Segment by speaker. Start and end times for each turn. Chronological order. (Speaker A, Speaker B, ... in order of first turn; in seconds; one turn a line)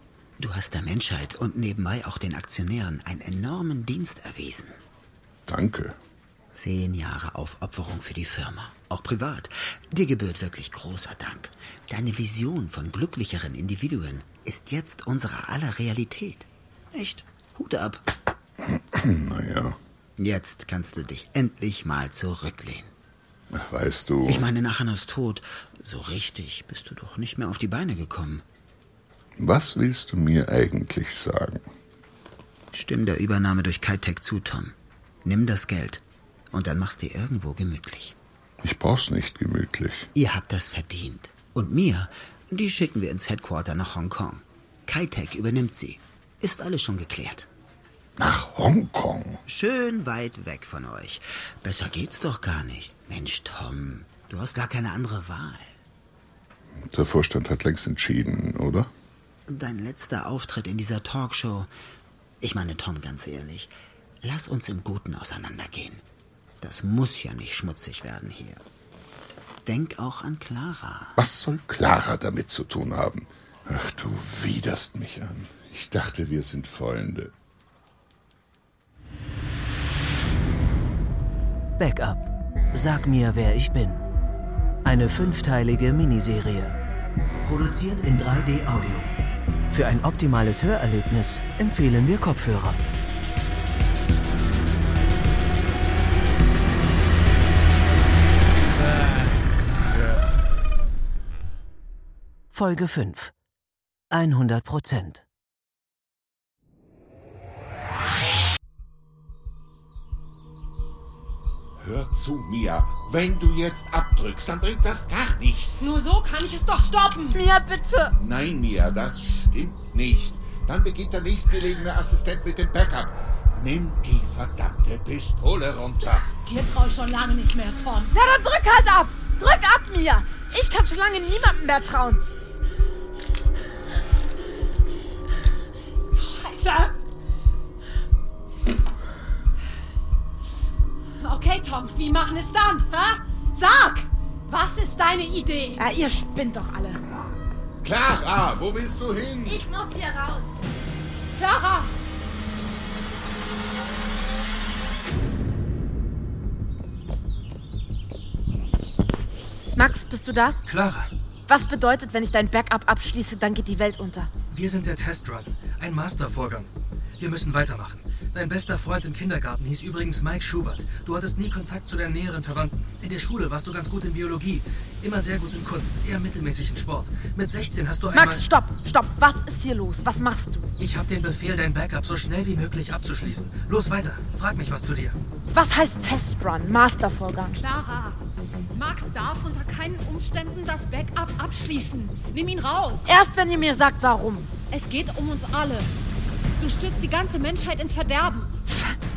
Speaker A: 0.4-4.8
Speaker B: 5.5-6.0
Speaker A: 6.5-18.1
Speaker B: 18.7-19.8
Speaker A: 20.2-22.9
Speaker B: 23.5-24.5
Speaker A: 24.2-28.4
Speaker B: 29.4-31.6
Speaker A: 32.7-38.1
Speaker B: 38.6-40.1
Speaker A: 40.1-47.5
Speaker B: 48.2-49.4
Speaker A: 49.5-55.8
Speaker B: 56.9-58.9
Speaker A: 59.5-61.7
Speaker A: 62.4-66.0
Speaker A: 66.6-68.6
Speaker A: 69.6-71.2
Speaker B: 71.2-77.3
Speaker C: 81.8-84.0
Speaker C: 84.8-86.8
Speaker C: 87.4-89.1
Speaker C: 89.7-92.8
Speaker C: 102.5-103.3
Speaker C: 104.1-105.2
Speaker B: 111.8-115.9
Speaker D: 115.8-117.4
Speaker E: 117.3-118.2
Speaker B: 118.2-126.3
Speaker D: 126.4-128.1
Speaker E: 128.1-132.2
Speaker D: 136.1-137.0
Speaker D: 141.2-145.8
Speaker E: 145.8-147.0
Speaker B: 147.8-149.6
Speaker E: 149.4-150.6
Speaker D: 151.3-151.9
Speaker E: 159.7-160.6
Speaker F: 160.7-161.1
Speaker E: 161.5-164.3
Speaker F: 164.5-178.4
Speaker E: 178.1-180.7
Speaker F: 180.8-185.2
Speaker E: 185.5-187.6
Speaker D: 187.6-193.1
Speaker E: 193.0-194.5
Speaker D: 194.7-195.9
Speaker D: 196.6-198.5
Speaker E: 198.7-198.9